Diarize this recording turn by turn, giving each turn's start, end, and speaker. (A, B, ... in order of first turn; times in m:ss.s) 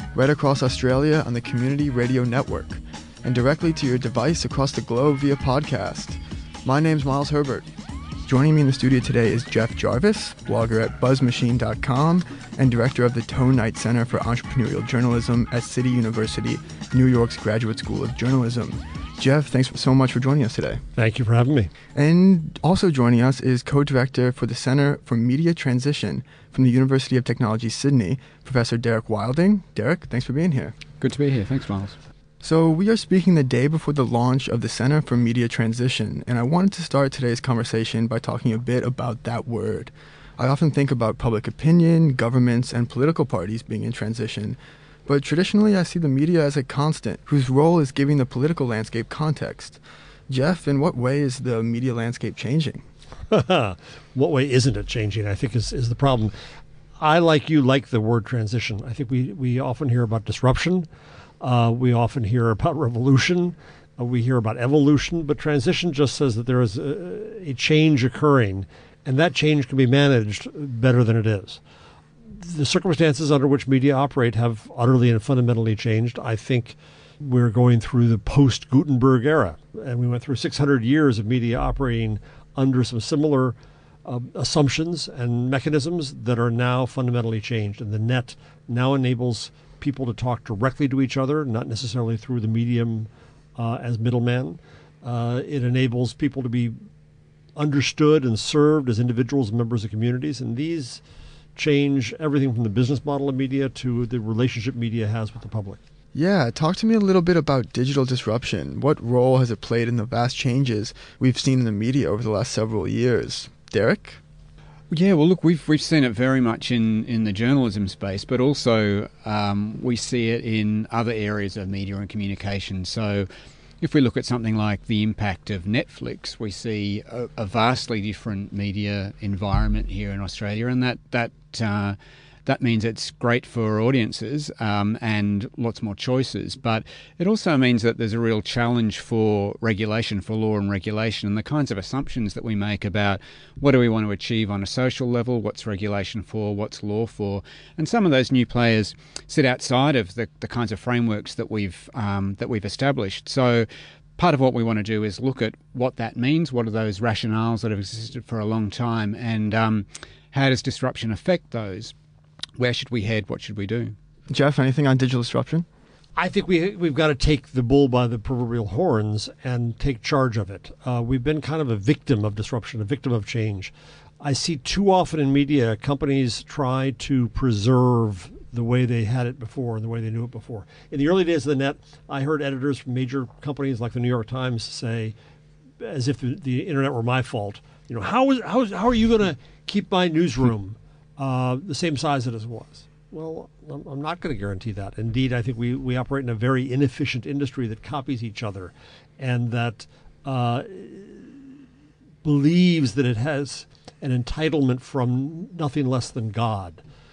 0:00.1-0:07.6 A
0:08.2-0:20.8 A
0:21.0-0:21.7 B
0:21.9-0:30.8 A
0:31.0-0:32.0 C
0:32.4-0:52.8 A
0:53.3-0:56.3 B
0:57.0-1:00.8 B
1:01.4-1:11.6 B
1:12.3-1:36.8 B
1:37.6-1:41.0 B
1:41.6-1:45.8 B
1:46.1-1:54.2 A
1:54.9-2:03.3 C
2:03.8-2:41.9 C
2:42.6-2:44.0 C
2:44.3-2:45.6 A
2:46.2-3:05.1 B
3:05.8-3:21.5 B
3:22.2-3:26.8 B